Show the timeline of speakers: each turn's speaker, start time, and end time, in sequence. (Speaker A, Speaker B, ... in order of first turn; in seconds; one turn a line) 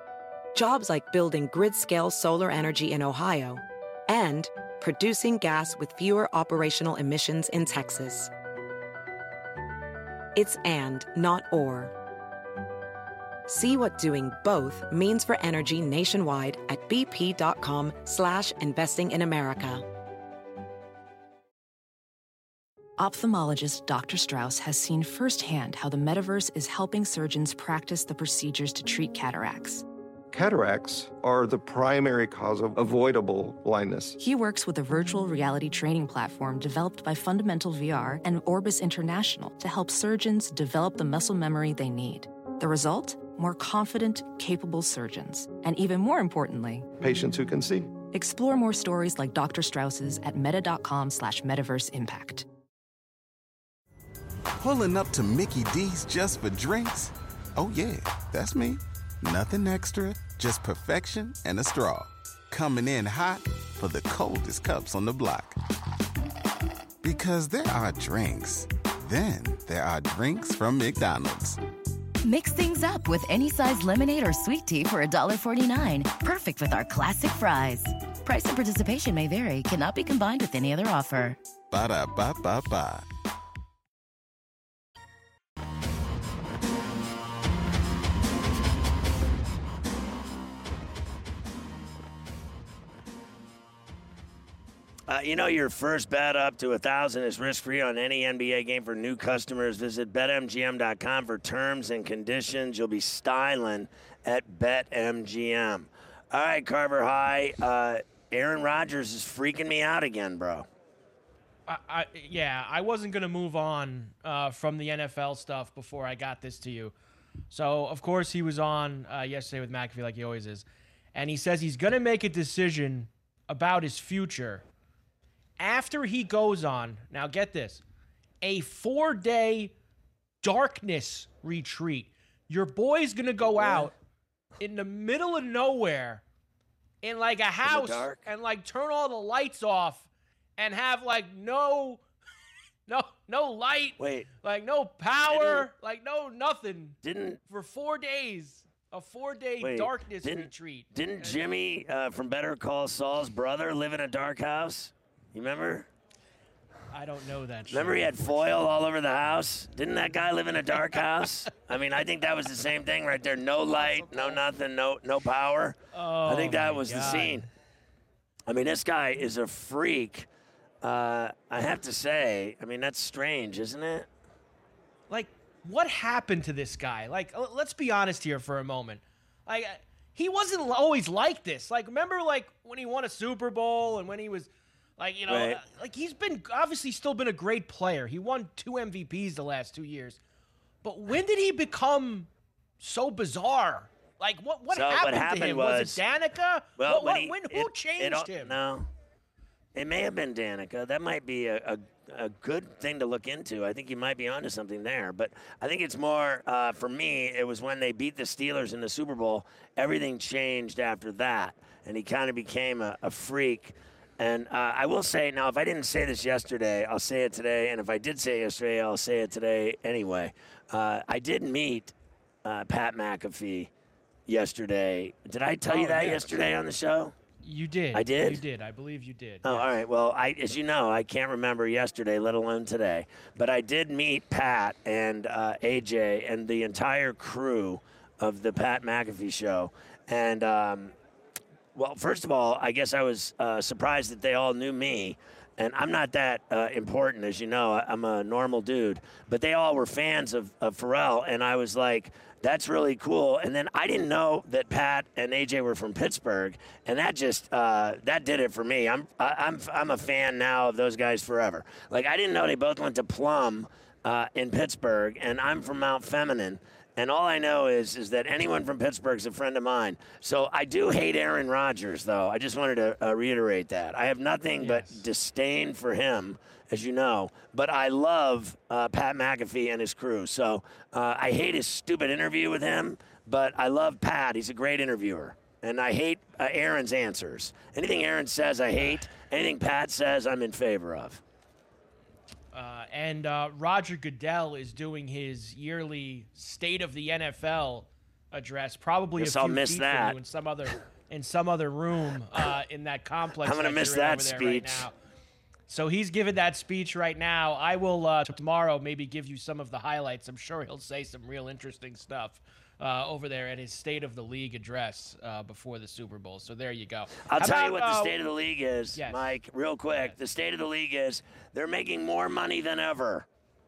Speaker A: 0.5-8.3
Speaker A: 10.3-11.9
Speaker A: 13.5-19.8
Speaker B: 23.0-29.8
Speaker C: 30.3-34.2
Speaker B: 34.2-46.9
Speaker C: 47.0-47.9
Speaker B: 48.1-52.5
Speaker D: 54.6-65.6
Speaker D: 67.0-71.6
Speaker E: 72.2-81.4
Speaker D: 81.7-83.1
Speaker F: 95.1-110.7
Speaker G: 111.7-116.9
Speaker G: 117.5-124.6
Speaker G: 125.6-127.8
Speaker G: 128.4-129.7
Speaker G: 130.4-133.9
Speaker G: 134.6-136.2
Speaker G: 137.0-142.0
Speaker F: 137.6-138.3
Speaker G: 142.9-151.4
Speaker F: 144.0-144.3
Speaker F: 145.3-145.7
Speaker F: 147.0-147.4
Speaker F: 149.6-155.9
Speaker G: 156.9-158.7
Speaker F: 157.7-167.4
Speaker G: 163.7-164.4
Speaker G: 165.9-167.5
Speaker F: 168.5-170.3
Speaker F: 170.8-174.1
Speaker G: 175.1-190.2
Speaker F: 185.3-185.6
Speaker G: 190.8-192.3
Speaker G: 192.8-198.6
Speaker F: 194.7-196.0
Speaker F: 196.8-198.9
Speaker F: 199.7-221.9
Speaker F: 222.4-223.7
Speaker F: 224.3-227.1
Speaker G: 225.7-226.4
Speaker G: 227.4-229.7
Speaker F: 227.9-228.4
Speaker F: 229.4-240.9
Speaker F: 241.7-291.2
Speaker G: 274.6-275.1
Speaker G: 292.5-304.9
Speaker F: 299.2-300.2
Speaker F: 303.4-304.9
Speaker G: 305.7-318.2
Speaker F: 317.2-323.3
Speaker G: 318.9-319.4
Speaker G: 319.9-320.1